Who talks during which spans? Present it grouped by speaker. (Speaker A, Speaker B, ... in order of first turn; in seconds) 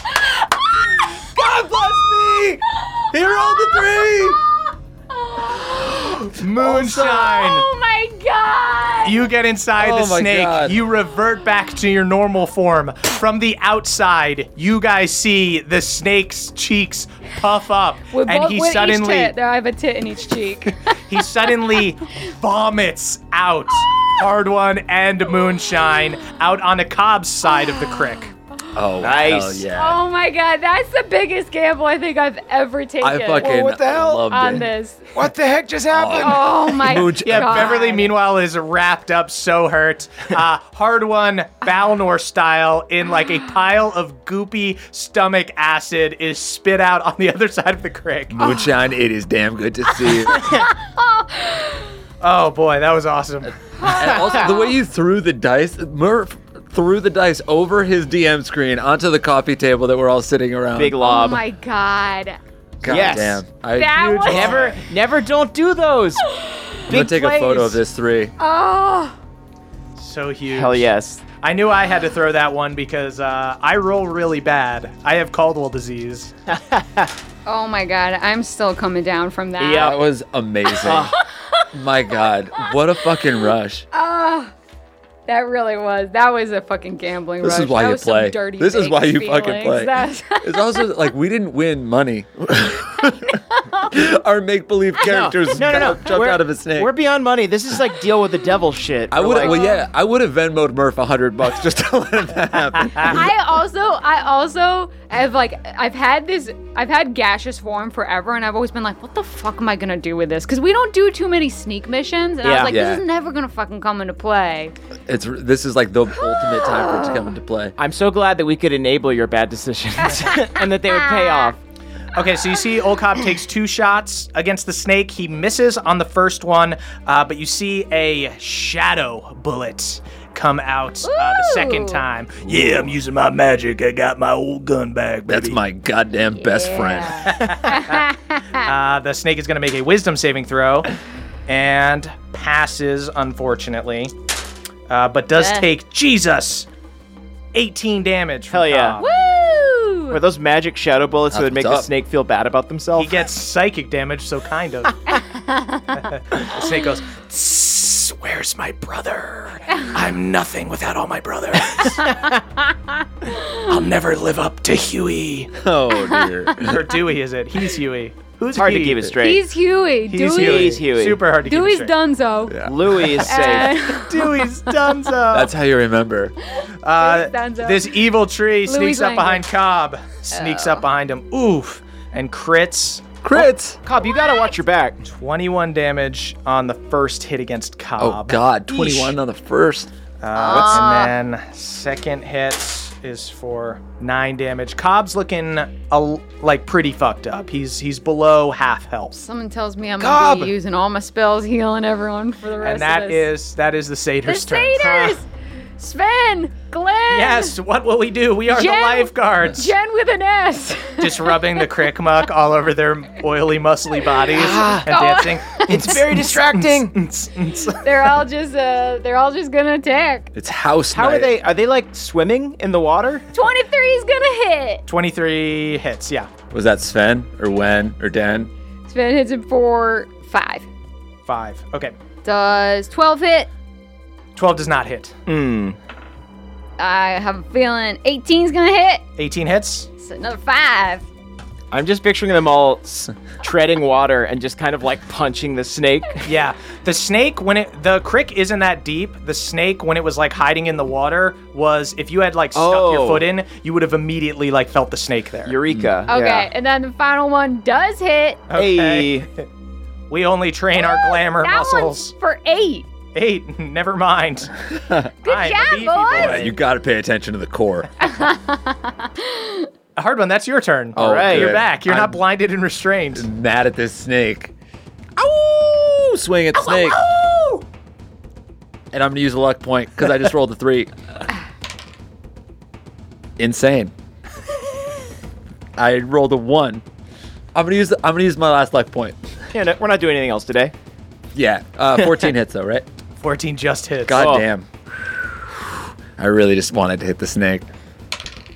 Speaker A: 0.3-1.2, 2.8-9.3, 18.1-21.2, 27.5-28.8, 29.7-33.6, 34.3-35.1, 36.1-38.1, 48.4-48.7, 50.0-51.9, 53.8-54.8, 61.0-62.4, 63.7-64.5, 66.3-66.8, 68.4-69.2, 77.5-80.0, 83.9-84.5, 85.3-90.9, 93.3-93.9, 99.4-99.9, 103.0-114.8, 116.2-117.4, 120.1-121.5, 131.0-132.0, 136.4-138.7, 145.4-145.7, 149.0-150.2, 155.1-156.0, 165.9-166.5, 169.2-170.8, 171.4-174.7, 177.0-178.0, 178.7-179.5, 180.3-180.8, 184.1-184.5, 190.3-191.1, 199.1-203.3, 204.3-207.6, 208.5-211.7, 214.1-216.0, 217.7-220.3, 223.3-224.8, 228.9-230.7, 232.2-233.5, 236.8-239.0, 240.0-241.0, 256.1-258.4, 260.8-262.9, 265.2-266.5, 268.0-269.7
Speaker B: 1.2-4.4, 9.8-10.8, 28.7-30.0, 33.0-34.7, 35.9-37.9, 48.3-50.7, 53.8-61.0, 62.8-64.7, 66.9-68.3, 79.7-81.2, 81.7-83.9, 87.4-96.9, 99.1-103.3, 112.7-113.0, 115.1-117.8, 132.5-132.9, 135.3-137.5, 151.3-151.9, 165.6-166.8, 172.5-173.2, 175.3-176.4, 183.2-183.8, 188.0-189.9, 220.3-221.3, 226.5-228.5, 264.7-265.1, 266.2-267.9, 270.9-272.2, 273.1-274.5, 275.2-277.0, 278.9-280.9, 283.4-283.9, 285.8-286.8, 287.5-289.3, 291.3-292.9, 294.1-294.7, 296.2-297.7
Speaker C: 6.2-7.7, 9.0-19.3, 21.1-28.3, 37.2-48.4, 52.2-53.6, 64.0-64.8, 70.0-76.3, 122.2-135.6, 137.3-138.1, 138.6-140.9, 141.5-144.1, 144.9-146.7, 147.5-149.1, 153.0-155.0, 156.1-162.3, 163.5-165.5, 166.6-169.1, 170.1-171.9, 173.4-175.5, 176.8-183.2, 185.1-189.0, 190.2-199.2, 202.6-205.0, 207.1-209.7, 211.0-218.1, 224.9-226.3, 231.3-231.9, 234.3-235.1, 239.2-239.9, 246.2-255.6, 258.5-259.4, 260.1-262.1, 263.1-264.6, 265.2-266.6, 270.0-273.2, 293.2-294.3
Speaker D: 29.0-29.6, 60.8-61.4, 62.8-63.4, 64.3-66.3, 66.9-67.8, 70.5-71.2, 76.5-77.1, 79.6-80.0, 80.8-81.1, 95.0-99.7, 112.4-112.8, 117.8-121.6, 148.5-149.0, 150.1-153.2, 168.6-169.5, 170.2-171.2, 172.7-173.8, 183.8-185.0, 190.5-190.8, 200.0-200.5, 204.8-205.2, 214.3-214.9, 215.7-216.9, 220.9-223.2, 235.3-235.8, 241.7-246.3, 252.5-253.3, 255.5-256.5, 258.6-259.3, 270.9-271.6, 289.5-290.7, 294.2-294.5
Speaker E: 33.4-34.2, 35.1-36.6